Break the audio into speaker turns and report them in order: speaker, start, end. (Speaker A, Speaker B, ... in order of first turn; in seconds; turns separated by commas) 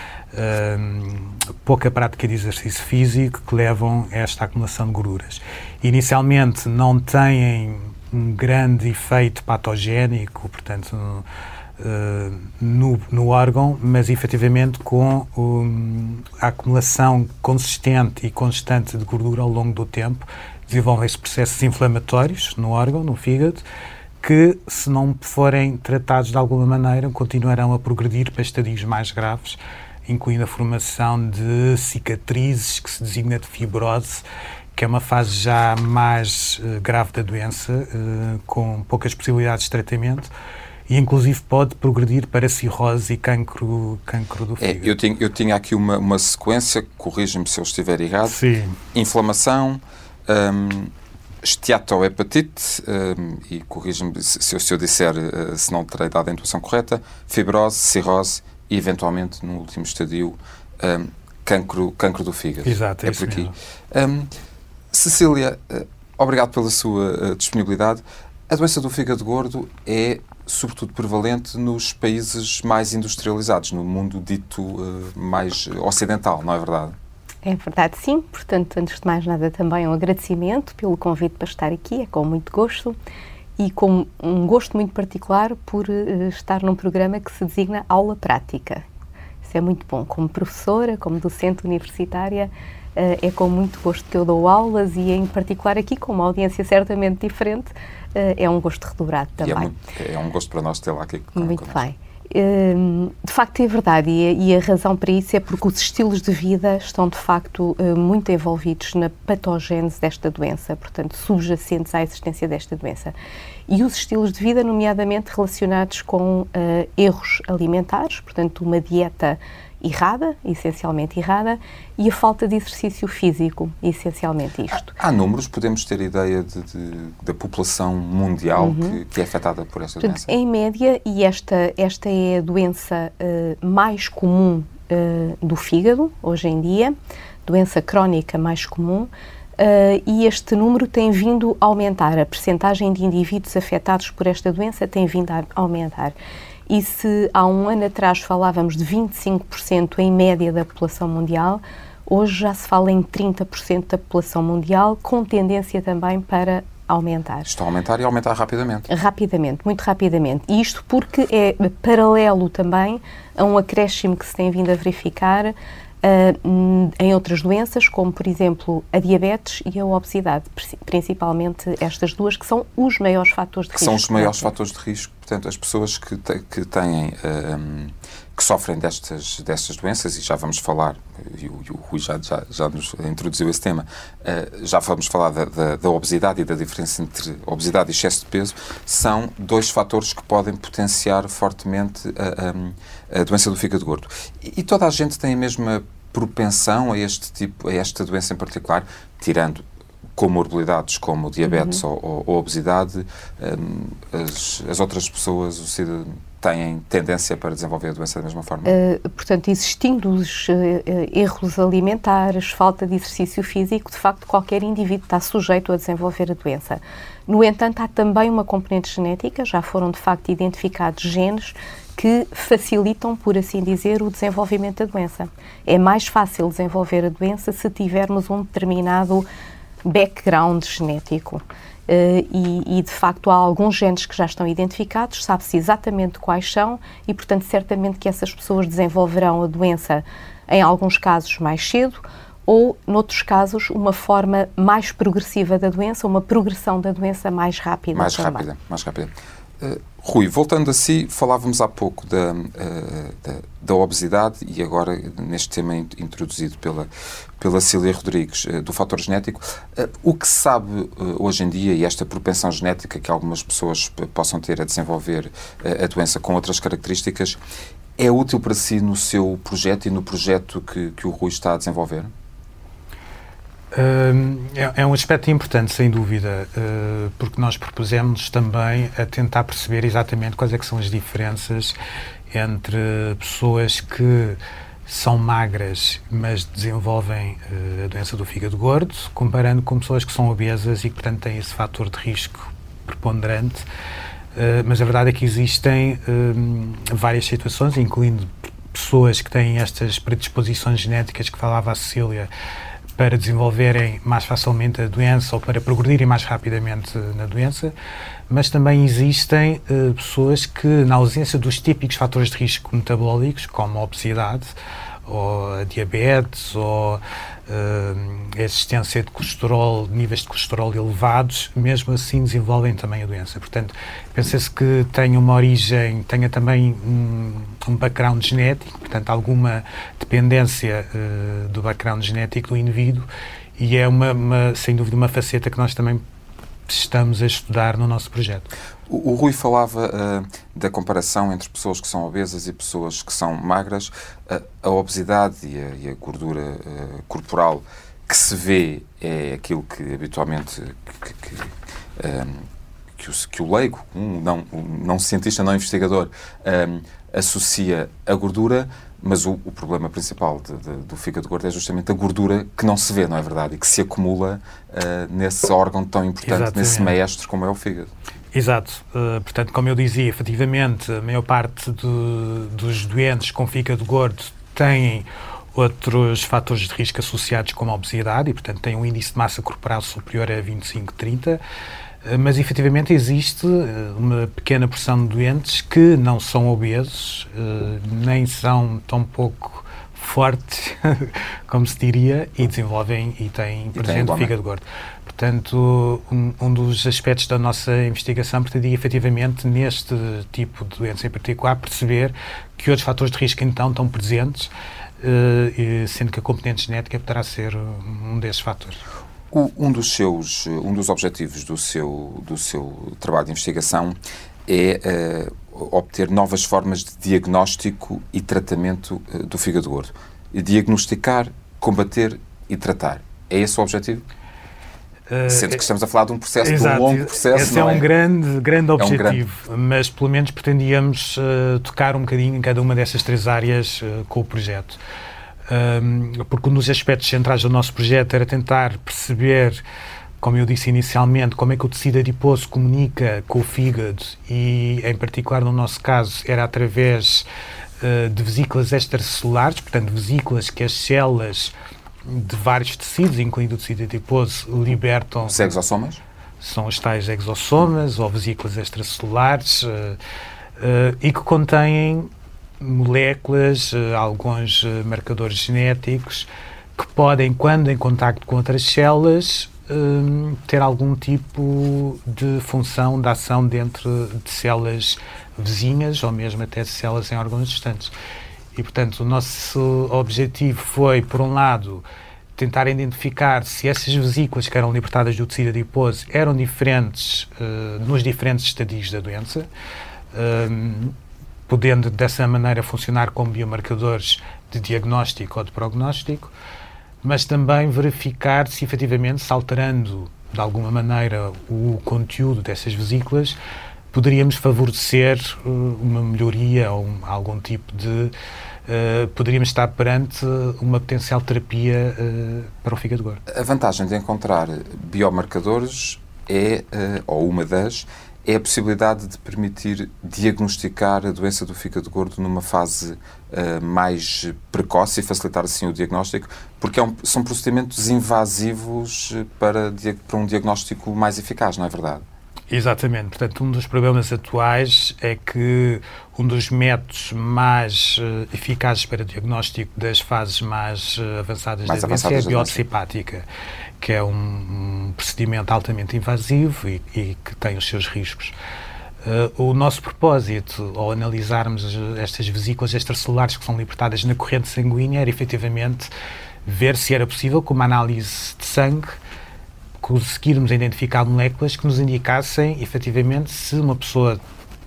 Speaker A: 0.3-11.2, Speaker A: 11.8-23.6, Speaker A: 24.2-40.3, Speaker A: 40.9-44.9, Speaker B: 44.6-48.4, Speaker A: 48.3-48.8, Speaker B: 48.9-64.3, Speaker A: 62.6-63.5, Speaker B: 64.9-77.0, Speaker C: 77.4-83.0, Speaker C: 83.6-88.8, Speaker C: 89.4-99.7, Speaker B: 99.4-101.8, Speaker C: 101.3-113.1, Speaker C: 113.7-124.9, Speaker B: 124.8-130.3, Speaker C: 128.6-129.0, Speaker C: 130.0-146.1, Speaker C: 146.7-157.5, Speaker B: 157.4-158.9, Speaker C: 158.9-174.4, Speaker B: 173.7-199.6, Speaker B: 200.2-208.8, Speaker C: 201.4-201.8, Speaker C: 208.7-229.2, Speaker C: 229.8-248.4, Speaker B: 247.9-256.9, Speaker B: 257.4-267.4, Speaker B: 268.0-272.1, Speaker A: 273.7-281.7, Speaker A: 282.3-293.6, Speaker A: 294.3-302.3, Speaker A: 302.9-307.7, Speaker A: 308.3-314.5, Speaker A: 315.1-336.0, Speaker A: 336.7-338.5, Speaker B: 338.9-352.4, Speaker B: 353.0-367.9, Speaker A: 366.2-366.9, Speaker A: 368.3-381.4, Speaker A: 382.0-408.8, Speaker B: 393.7-394.3, Speaker B: 409.3-424.0, Speaker A: 425.1-425.6, Speaker B: 425.2-427.9, Speaker A: 426.4-434.8, Speaker B: 428.8-429.2, Speaker A: 435.5-439.6, Speaker A: 440.2-447.2, Speaker A: 447.8-451.5, Speaker A: 452.0-455.5, Speaker B: 455.2-456.0, Speaker A: 456.4-460.0, Speaker A: 460.6-477.9, Speaker A: 478.5-481.8, Speaker A: 482.4-489.5, Speaker A: 490.1-490.9, Speaker A: 491.5-496.3, Speaker A: 497.0-503.4, Speaker A: 503.9-508.1, Speaker A: 508.6-513.2, Speaker B: 513.3-532.0, Speaker A: 532.5-543.2, Speaker B: 541.6-542.6, Speaker A: 543.8-548.3, Speaker A: 549.0-555.9, Speaker A: 556.4-559.0, Speaker A: 559.8-564.2